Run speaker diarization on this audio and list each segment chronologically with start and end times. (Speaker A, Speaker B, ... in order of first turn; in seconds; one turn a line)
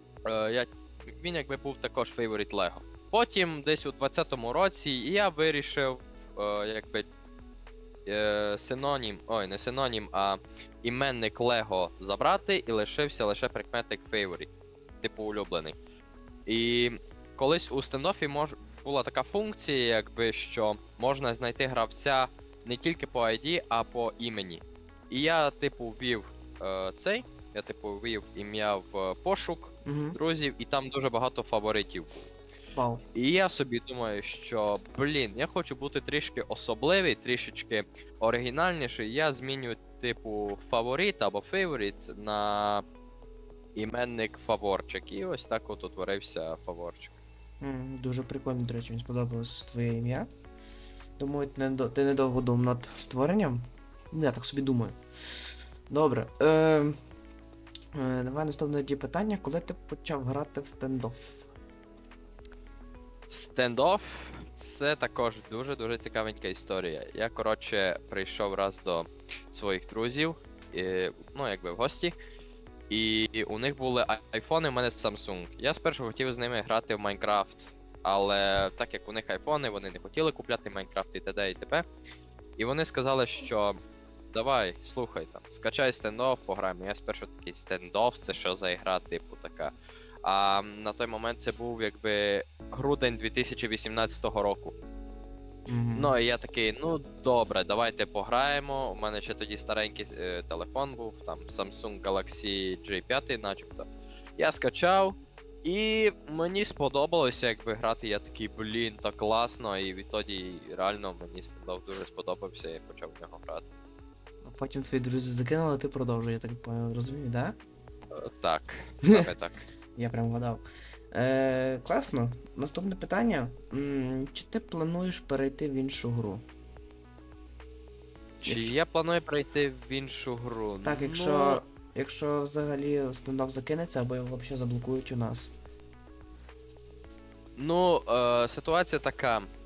Speaker A: 0.2-7.1
Speaker A: 8.1-14.5
Speaker A: 15.0-15.8
Speaker A: 16.5-32.1
Speaker B: 29.9-30.2
Speaker B: 32.8-33.0
Speaker A: 33.1-42.8
Speaker A: 43.8-47.2
Speaker B: 47.6-50.3
Speaker B: 51.2-55.0
Speaker B: 55.9-57.0
Speaker B: 57.9-61.5
Speaker A: 63.3-72.2
Speaker A: 72.9-81.8
Speaker A: 82.6-83.8
Speaker A: 84.3-94.7
Speaker B: 95.7-96.2
Speaker A: 96.0-113.7
Speaker B: 114.4-117.6
Speaker A: 118.1-119.7
Speaker B: 120.0-126.4
Speaker A: 128.4-131.6
Speaker B: 128.4-128.8
Speaker B: 130.8-135.5
Speaker A: 137.6-139.5